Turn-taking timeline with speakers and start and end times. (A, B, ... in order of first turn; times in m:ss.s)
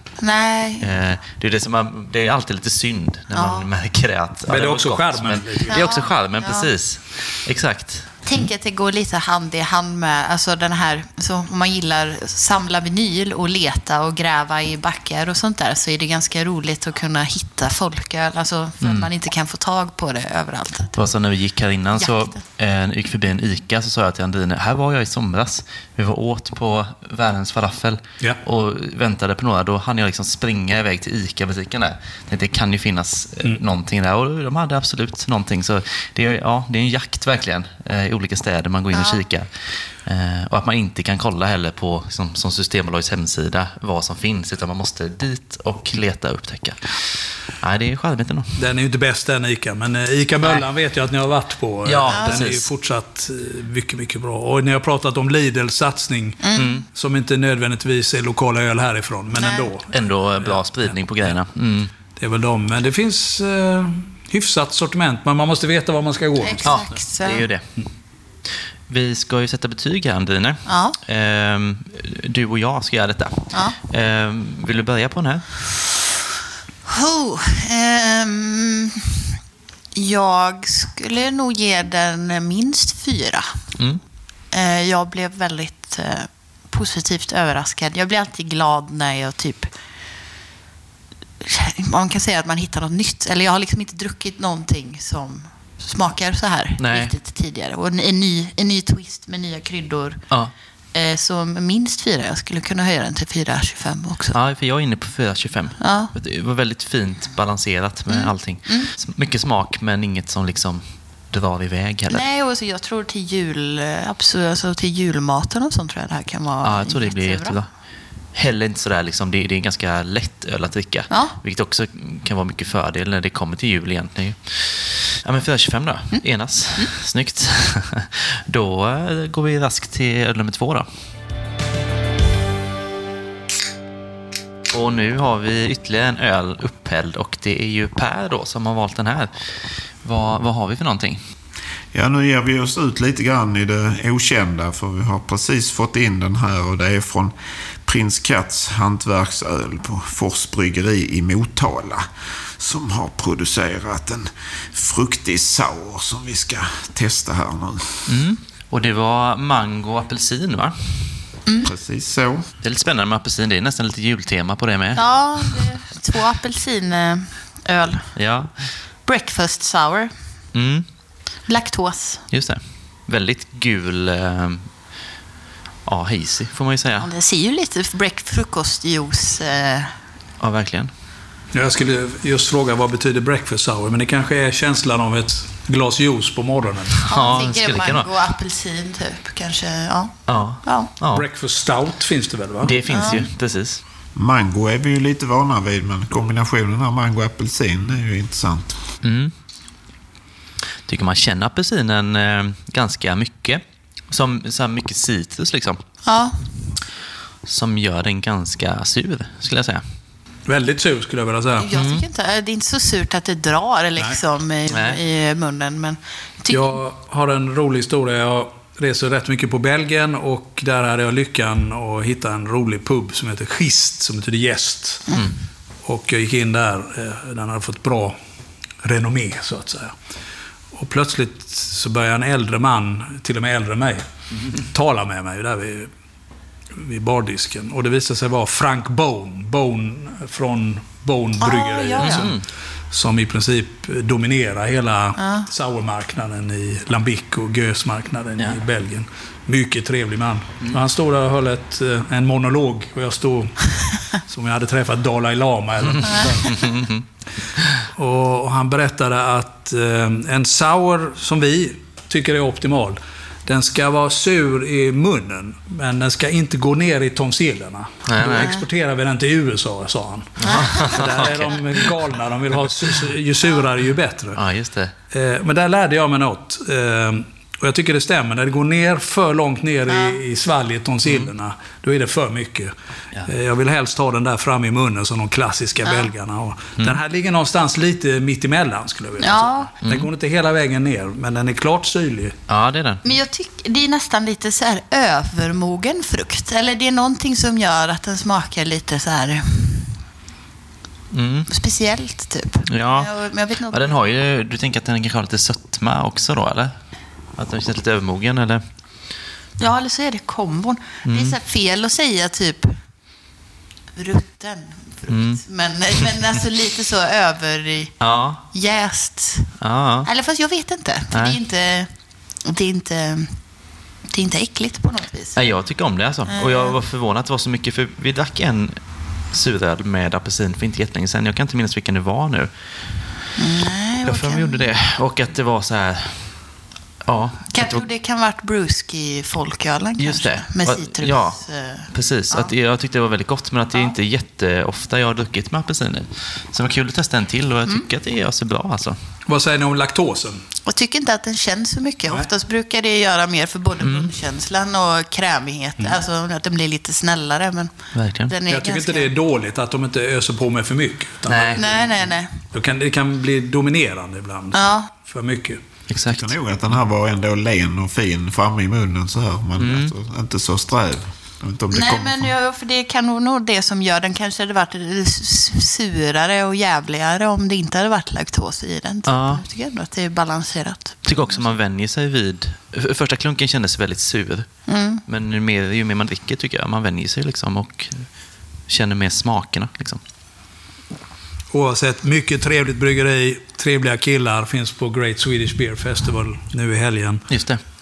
0:00.2-0:00.9 A
0:00.8-0:08.2 B
0:03.3-0:03.7 A
0:04.5-0:05.8 C
0:05.7-0:06.7 A
0:08.2-0:20.9 A
0:18.8-0:19.1 B
0:20.9-0:48.5 B
0:22.0-0:22.3 A
0:38.9-0:39.2 A
0:48.6-1:01.3 C
0:51.8-0:52.7 B
0:52.1-0:52.4 A
0:56.4-0:56.7 A
0:56.6-0:56.8 B
0:59.3-0:59.7 A
0:59.9-1:01.9 B
1:02.1-1:07.0 C
1:06.4-1:07.5 A
1:06.6-1:07.7 B
1:08.9-1:15.6 B
1:10.6-1:11.0 A
1:13.5-1:13.8 A
1:16.9-1:19.2 A
1:19.9-1:23.5 A
1:23.8-1:24.0 B
1:24.5-1:29.7 A
1:31.4-1:40.2 A
1:36.8-1:37.1 B
1:40.9-1:44.4 A
1:44.3-1:52.2 B
1:45.8-1:46.1 A
1:48.1-1:48.9 A
1:52.1-1:57.6 A
1:56.6-1:57.7 B
1:58.3-2:10.9 B
2:01.1-2:01.4 A
2:14.7-2:21.2 B
2:21.9-2:38.1 D
2:38.1-2:41.3 B
2:41.6-2:42.5 D
2:42.6-2:45.6 B
2:45.0-2:48.1 A
2:48.2-2:48.8 B
2:49.0-2:50.1 A
2:50.5-2:50.8 B
2:51.4-2:52.2 A
2:52.3-2:54.7 B
2:55.8-2:57.1 B
2:57.0-2:59.9 A
3:00.4-3:00.9 B
3:01.5-3:07.2 C
3:07.1-3:10.9 A
3:07.1-3:08.1 B
3:10.3-3:11.2 B
3:11.1-3:13.1 C
3:12.6-3:13.8 B
3:12.9-3:13.3 A
3:14.1-3:18.8 D
3:19.0-3:19.3 B
3:20.8-3:25.8 B
3:26.0-3:26.5 A
3:27.4-3:29.8 B
3:30.4-3:31.7 C
3:31.6-3:36.7 A
3:31.7-3:32.0 B
3:34.7-3:35.0 B
3:36.5-3:45.2 C
3:45.8-3:48.2 C
3:48.8-3:50.0 C
3:50.7-3:55.9 C
3:56.7-4:16.7 C
4:01.4-4:02.3 A
4:02.0-4:02.4 B
4:05.2-4:05.5 A
4:15.9-4:17.0 B
4:17.6-4:17.9 B
4:17.9-4:34.4 C
4:28.0-4:28.5 B
4:30.4-4:32.0 B
4:30.4-4:30.9 A
4:34.3-4:34.9 B
4:35.1-4:42.7 C
4:39.9-4:40.2 A
4:41.0-4:41.3 B
4:43.2-4:52.4 C
4:45.8-4:46.1 A
4:49.2-4:49.7 A
4:49.8-4:50.1 B
4:52.5-4:53.0 B
4:53.0-5:00.0 A
5:01.1-5:01.5 B
5:01.5-5:03.9 A
5:02.7-5:03.1 B
5:03.7-5:06.7 B
5:07.3-5:08.6 B
5:09.6-5:12.8 A
5:11.0-5:11.4 B
5:13.9-5:23.6 A
5:15.1-5:15.4 B
5:18.0-5:18.4 B
5:19.6-5:20.1 B
5:21.1-5:21.4 B
5:24.1-5:25.4 A
5:25.4-5:33.1 B
5:26.3-5:26.8 A
5:33.4-5:34.6 A
5:34.0-5:36.5 B
5:37.0-5:37.8 B
5:37.5-5:42.5 A
5:40.0-5:49.0 B
5:49.2-5:50.4 C
5:50.6-5:59.1 A
5:53.8-5:54.1 B
5:57.9-5:58.3 B
5:58.5-6:01.9 C
6:01.3-6:01.6 B
6:01.6-6:02.3 A
6:02.5-6:05.6 C
6:04.5-6:04.9 A
6:05.9-6:06.3 B
6:06.1-6:12.3 D
6:09.6-6:09.9 B
6:11.7-6:21.5 A
6:19.0-6:19.4 B
6:21.0-6:28.1 B
6:24.7-6:25.0 A
6:28.7-6:30.0 B
6:31.5-6:37.2 C
6:37.3-6:37.6 B